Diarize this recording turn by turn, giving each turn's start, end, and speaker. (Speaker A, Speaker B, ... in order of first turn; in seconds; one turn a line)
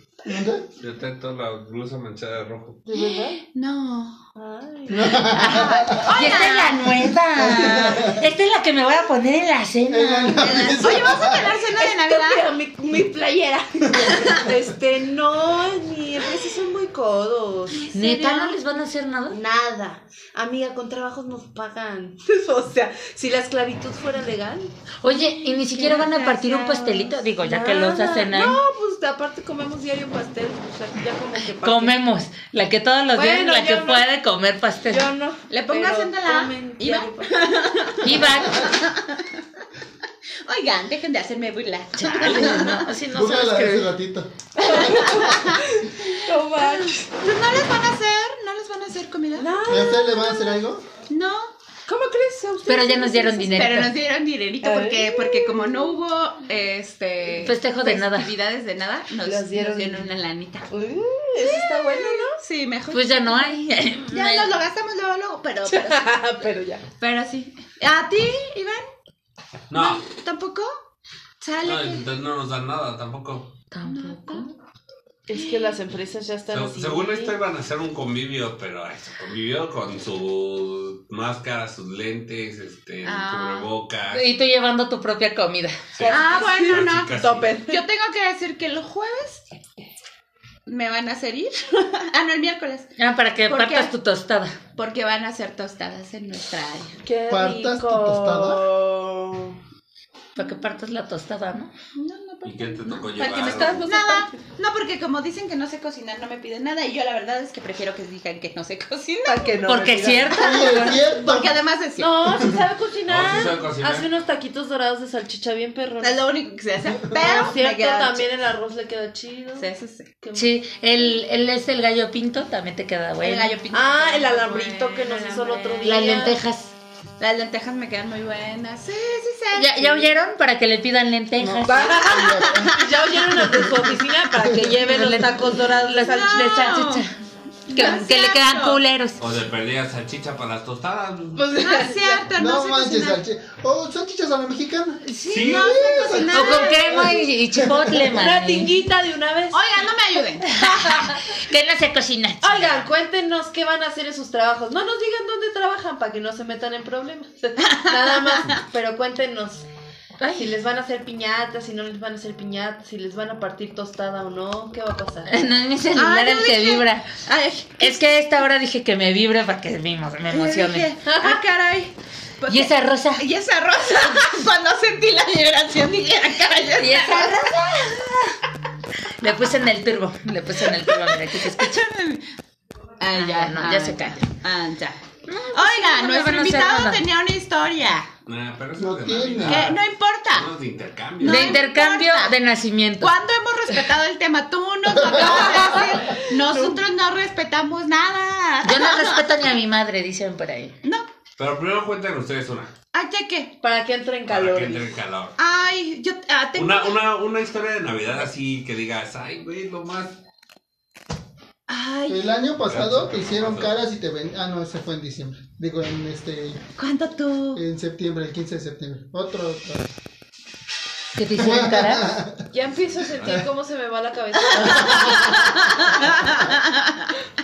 Speaker A: 0.2-0.7
Speaker B: 0.8-2.8
Speaker C: 2.9-3.4
Speaker D: 3.1-4.2
Speaker C: 4.3-5.6
Speaker A: 4.9-6.1
Speaker E: 5.3-10.8
Speaker D: 5.4-6.8
Speaker A: 7.1-8.3
Speaker A: 9.9-11.6
Speaker D: 10.4-12.4
Speaker C: 11.8-17.8
Speaker D: 17.7-18.6
Speaker E: 17.9-19.4
Speaker C: 19.3-24.7
Speaker E: 25.0-28.6
Speaker D: 25.1-26.8
Speaker C: 25.9-26.2
Speaker C: 26.9-32.0
Speaker E: 31.6-35.1
Speaker C: 33.1-34.0
Speaker C: 34.9-37.5
Speaker D: 35.5-39.4
Speaker E: 38.0-38.8
Speaker D: 40.4-42.9
Speaker E: 42.0-43.9
Speaker A: 42.4-45.2
Speaker D: 44.6-45.7
Speaker C: 44.6-47.2
Speaker D: 46.4-49.6
Speaker C: 49.4-50.5
Speaker A: 49.7-50.8
Speaker D: 51.1-51.5
Speaker C: 51.9-53.6
Speaker E: 52.7-53.9
Speaker D: 53.5-60.7
Speaker C: 54.6-55.7
Speaker E: 57.4-58.3
Speaker C: 59.2-60.1
Speaker C: 60.7-62.4
Speaker D: 61.4-63.5
Speaker E: 62.9-64.6
Speaker D: 64.1-66.4
Speaker C: 65.7-66.8
Speaker D: 67.0-68.8
Speaker B: 69.7-70.0
Speaker D: 69.7-70.7
Speaker D: 71.4-72.0
Speaker B: 71.6-73.5
Speaker E: 73.7-74.5
Speaker D: 73.8-74.5
Speaker C: 75.3-77.4
Speaker D: 75.3-75.8
Speaker B: 76.5-84.3
Speaker D: 83.0-83.7
Speaker E: 84.1-85.8
Speaker B: 86.0-87.6
Speaker C: 86.0-87.8
Speaker D: 86.1-89.5
Speaker D: 90.7-92.9
Speaker E: 93.0-94.6
Speaker D: 93.5-93.9
Speaker D: 94.8-97.0
Speaker C: 97.0-99.6
Speaker A: 97.3-98.6
Speaker E: 100.4-101.7
Speaker D: 102.0-109.5
Speaker B: 102.4-103.9
Speaker C: 103.2-104.4
Speaker C: 109.2-110.5
Speaker E: 109.7-111.0
Speaker A: 110.3-111.6
Speaker D: 110.9-112.3
Speaker C: 112.0-116.2
Speaker B: 113.1-114.1
Speaker D: 116.0-118.3
Speaker C: 117.1-119.7
Speaker D: 119.6-120.1
Speaker C: 120.2-120.5
Speaker E: 120.3-123.6
Speaker D: 123.2-126.1
Speaker C: 123.7-126.4
Speaker E: 125.8-126.7
Speaker D: 127.2-130.1
Speaker E: 129.5-132.0
Speaker A: 131.4-134.9
Speaker C: 131.7-136.7
Speaker D: 132.0-132.8
Speaker E: 134.8-137.1
Speaker D: 136.0-137.1
Speaker D: 137.7-138.8
Speaker E: 137.7-139.2
Speaker B: 139.2-141.6
Speaker C: 141.4-142.3
Speaker D: 141.6-143.2
Speaker A: 142.3-148.2
Speaker E: 145.1-145.5
Speaker D: 145.3-147.2
Speaker B: 145.3-145.8
Speaker E: 146.3-148.8
Speaker C: 148.0-149.9
Speaker D: 149.5-150.5
Speaker E: 150.5-152.8
Speaker C: 152.4-159.7
Speaker D: 157.6-158.5
Speaker E: 160.2-160.6
Speaker C: 160.4-165.3
Speaker E: 165.3-167.1
Speaker D: 165.9-168.0
Speaker E: 167.8-170.9
Speaker D: 170.3-177.6
Speaker C: 171.1-171.4
Speaker E: 172.5-173.2
Speaker E: 176.8-178.3
Speaker E: 179.2-181.8
Speaker D: 180.8-182.2
Speaker D: 183.0-185.0
Speaker E: 183.1-184.2
Speaker E: 185.3-187.0
Speaker D: 185.5-188.1
Speaker B: 188.3-191.6
Speaker A: 188.8-189.7
Speaker D: 189.5-190.5
Speaker D: 191.2-192.3
Speaker E: 191.2-193.1
Speaker D: 193.0-199.3
Speaker C: 195.2-196.8
Speaker E: 198.6-200.7
Speaker B: 201.4-202.7
Speaker D: 202.9-203.6
Speaker C: 203.6-204.9
Speaker B: 204.3-205.4
Speaker D: 205.4-207.0
Speaker B: 206.6-210.2
Speaker D: 211.7-212.3
Speaker A: 212.1-216.6
Speaker B: 212.7-213.7
Speaker D: 216.8-217.6
Speaker A: 217.6-219.9
Speaker E: 221.2-222.2
Speaker A: 221.4-222.4
Speaker C: 222.5-226.4
Speaker B: 222.8-223.5
Speaker D: 224.4-227.1
Speaker A: 224.6-225.3